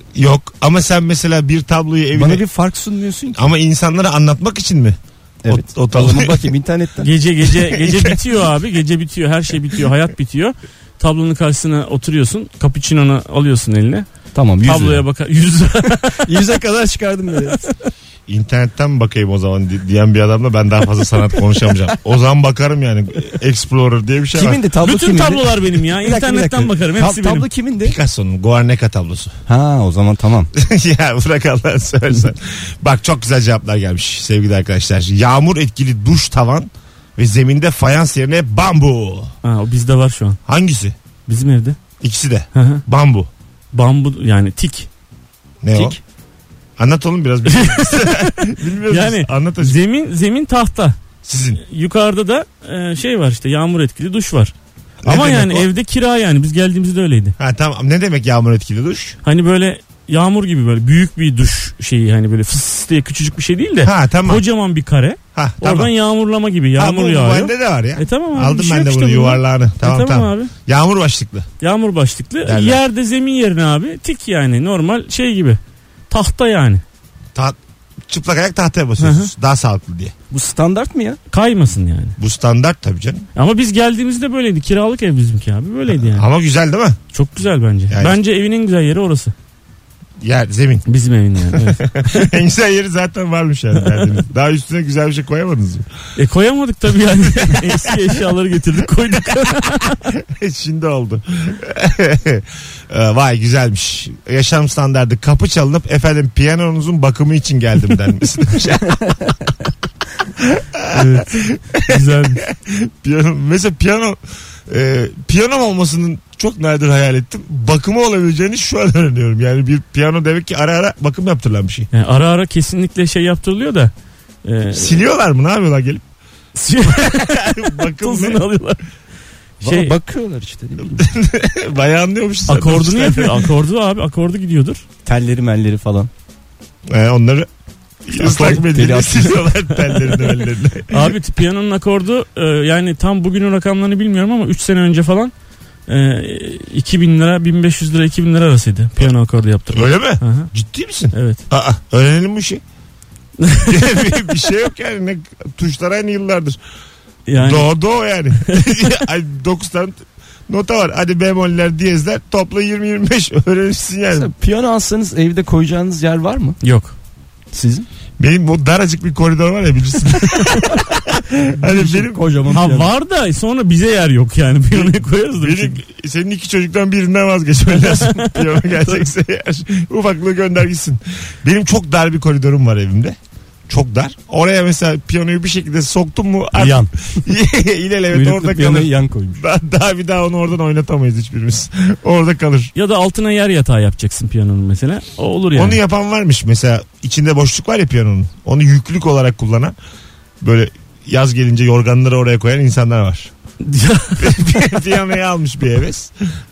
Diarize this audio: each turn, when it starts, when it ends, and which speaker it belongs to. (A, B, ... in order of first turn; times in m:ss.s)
0:00.2-0:02.4 A
0:02.1-0:03.4 B
0:03.4-0:05.0 A
0:05.4-0:07.1 B
0:05.5-0:06.5 A
0:07.0-0:14.1 C
0:07.4-0:08.2 A
0:14.4-0:15.0 B
0:14.6-0:16.4 C
0:16.2-0:17.7 B
0:18.3-0:24.6 A
0:24.4-0:28.0 B
0:24.8-0:27.5 C
0:27.8-0:29.3 A
0:29.5-0:30.5 B
0:30.6-0:39.3 A
0:39.4-0:40.4 C
0:40.5-0:41.0 A
0:41.3-0:41.8 C
0:42.0-0:43.3 A
0:42.6-0:42.8 C
0:43.7-0:44.9 C
0:45.6-0:46.0 A
0:46.8-0:49.8 A
0:47.5-0:51.0 C
0:51.2-0:51.6 A
0:51.6-0:54.5 C
0:55.0-0:55.7 A
0:55.0-0:57.4 C
0:57.4-0:59.2 A
0:59.2-1:10.5 C
1:03.8-1:04.4 A
1:05.4-1:05.9 A
1:06.8-1:11.5 A
1:11.6-1:15.6 C
1:12.5-1:12.8 A
1:16.1-1:16.8 C
1:18.1-1:20.1 A
1:19.0-1:19.3 C
1:20.3-1:21.2 B
1:21.3-1:22.2 C
1:22.2-1:23.3 A
1:23.4-1:26.3 C
1:25.9-1:27.0 A
1:27.1-1:29.3 C
1:27.9-1:28.2 A
1:30.2-1:30.8 A
1:30.9-1:32.3 C
1:31.5-1:35.9 A
1:36.2-1:40.0 C
1:37.3-1:37.9 A
1:40.1-1:49.5 A
1:50.4-2:01.9 A
1:50.9-1:52.4 C
2:01.9-2:03.9 C
2:04.4-2:05.0 C
2:04.7-2:06.0 A
2:06.6-2:08.8 C
2:06.9-2:08.4 A
2:09.6-2:09.9 C
2:09.6-2:11.0 B
2:10.9-2:13.4 A
2:12.5-2:14.8 C
2:15.1-2:16.1 B
2:16.9-2:17.5 A
2:18.1-2:21.1 A
2:18.2-2:18.6 C
2:18.2-2:19.4 B
2:20.9-2:25.3 C
2:25.9-2:30.5 C
2:29.7-2:32.6 A
2:31.1-2:31.4 C
2:33.4-2:34.3 C
2:33.7-2:36.6 A
2:37.3-2:37.7 C
2:37.4-2:44.3 A
2:38.5-2:38.9 C
2:44.1-2:46.6 B
2:46.6-2:46.9 C
2:47.5-2:47.9 B
2:48.2-2:52.2 A
2:51.6-2:52.9 B
2:52.5-2:55.8 C
2:54.7-3:03.2 A
2:57.7-2:59.0 C
3:03.7-3:12.7 A
3:06.6-3:06.9 B
3:08.1-3:09.4 B
3:12.8-3:15.8 C
3:15.5-3:19.8 A
3:20.4-3:23.3 A
3:23.6-3:24.4 C
3:24.2-3:26.1 A